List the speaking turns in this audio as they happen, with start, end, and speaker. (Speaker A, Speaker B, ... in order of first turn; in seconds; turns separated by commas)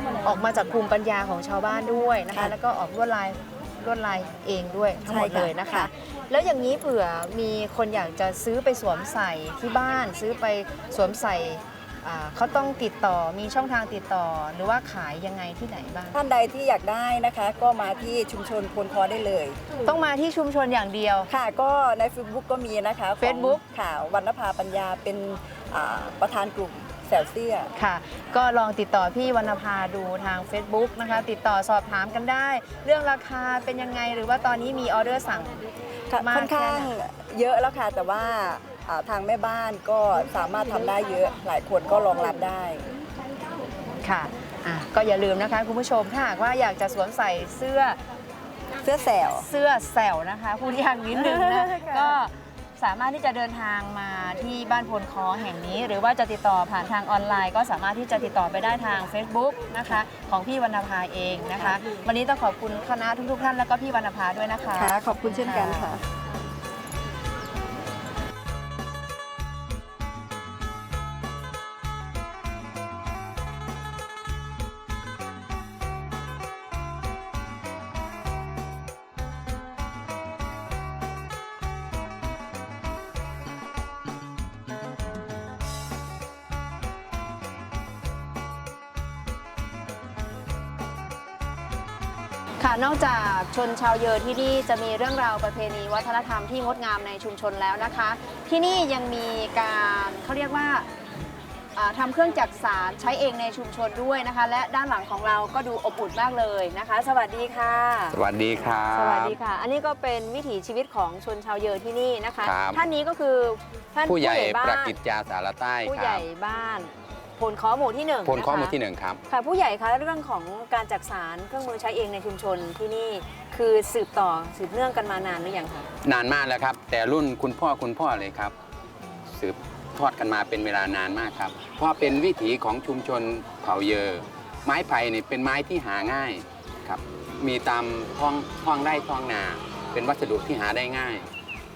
Speaker A: 0.2-16.1, Speaker B: 5.0-5.9, Speaker B: 16.1-19.6, Speaker A: 19.9-21.3, Speaker B: 21.3-27.7, Speaker A: 23.2-23.6, Speaker A: 27.8-35.6, Speaker B: 36.1-42.9, Speaker A: 36.2-36.9, Speaker A: 44.0-48.0, Speaker B: 48.8-49.5, Speaker A: 49.4-65.9, Speaker B: 51.1-52.1, Speaker B: 64.8-66.0, Speaker A: 92.6-100.9, Speaker A: 101.7-108.2, Speaker C: 108.1-109.4, Speaker A: 108.9-114.9, Speaker C: 112.4-112.8, Speaker C: 114.0-116.2, Speaker A: 115.8-118.8, Speaker C: 118.2-119.2, Speaker A: 119.3-125.9, Speaker C: 126.0-128.5, Speaker C: 129.3-141.3